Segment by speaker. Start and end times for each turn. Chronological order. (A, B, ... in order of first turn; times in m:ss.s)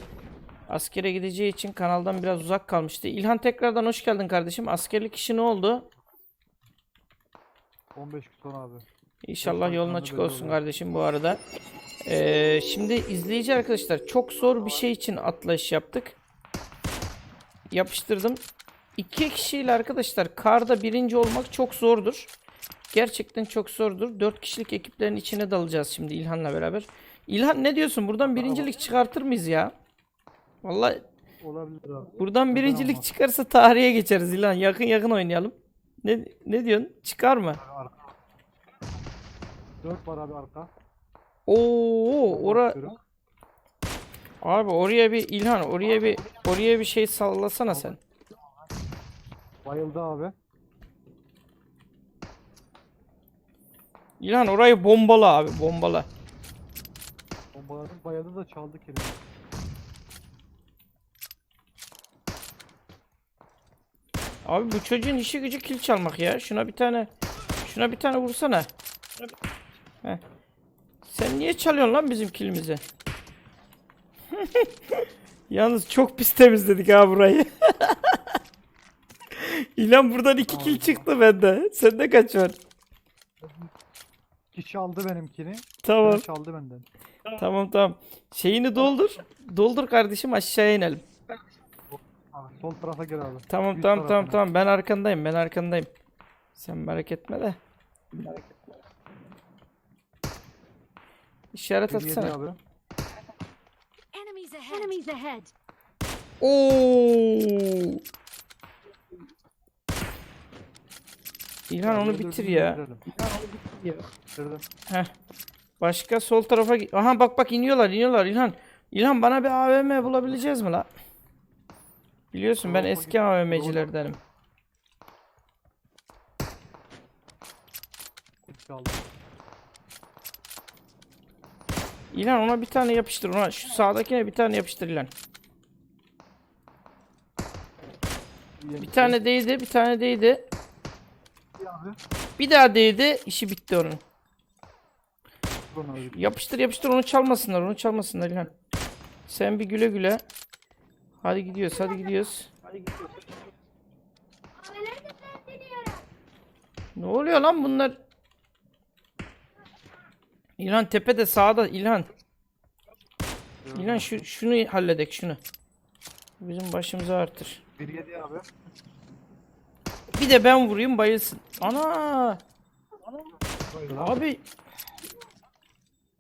0:00.7-0:05.9 A
0:07.9-0:08.9 B
0:09.2-0:11.4 A
0:09.4-0:10.6 B
0:12.0-0:16.2 A
0:17.7-0:18.4 A
0:19.0-0:22.3 A
0:22.9-0:29.7 A
0:28.2-0:28.8 B
0:30.6-0:31.0 A
0:31.4-0:33.1 B
0:32.2-0:37.6 A
0:37.6-0:38.1 B
0:39.8-0:40.7 B
0:41.5-0:42.8 A
0:42.3-0:43.0 B
0:44.4-0:48.0 A
0:47.7-0:48.0 B
0:49.6-0:50.3 B
0:54.2-0:56.1 A
0:57.5-0:59.2 B
1:04.4-1:07.1 A
1:07.6-1:08.7 A
1:11.0-1:12.8 A
1:14.3-1:18.2 A
1:19.3-1:22.6 A
1:20.4-1:21.1 B
1:23.4-1:23.7 B
1:24.5-1:26.8 B
1:25.8-1:26.2 A
1:27.3-1:31.0 A
1:31.9-1:34.4 B
1:33.5-1:35.9 A
1:36.6-1:37.6 A
1:38.1-1:38.5 A
1:41.5-1:42.3 A
1:41.9-1:42.6 B
1:44.1-1:45.5 C
1:46.4-1:48.0 A
1:51.7-1:54.0 A
1:51.8-1:53.1 B
1:54.4-1:54.6 B
1:55.8-2:00.9 A
2:02.3-2:04.2 A
2:02.6-2:04.2 B
2:08.4-2:09.0 B
2:12.1-2:15.1 A
2:18.6-2:19.2 B
2:18.8-2:20.4 A
2:21.6-2:22.0 B
2:22.4-2:24.0 A
2:25.7-2:26.3 B
2:26.0-2:28.5 A
2:29.3-2:30.2 A
2:31.2-2:33.1 A
2:34.6-2:36.0 C
2:37.0-2:38.0 A
2:40.6-2:42.1 A
2:43.6-2:44.2 B
2:43.8-2:45.4 A
2:46.4-2:47.6 A
2:47.8-2:48.4 B
2:50.1-2:52.4 A
2:53.6-2:54.2 B
2:54.0-2:54.4 A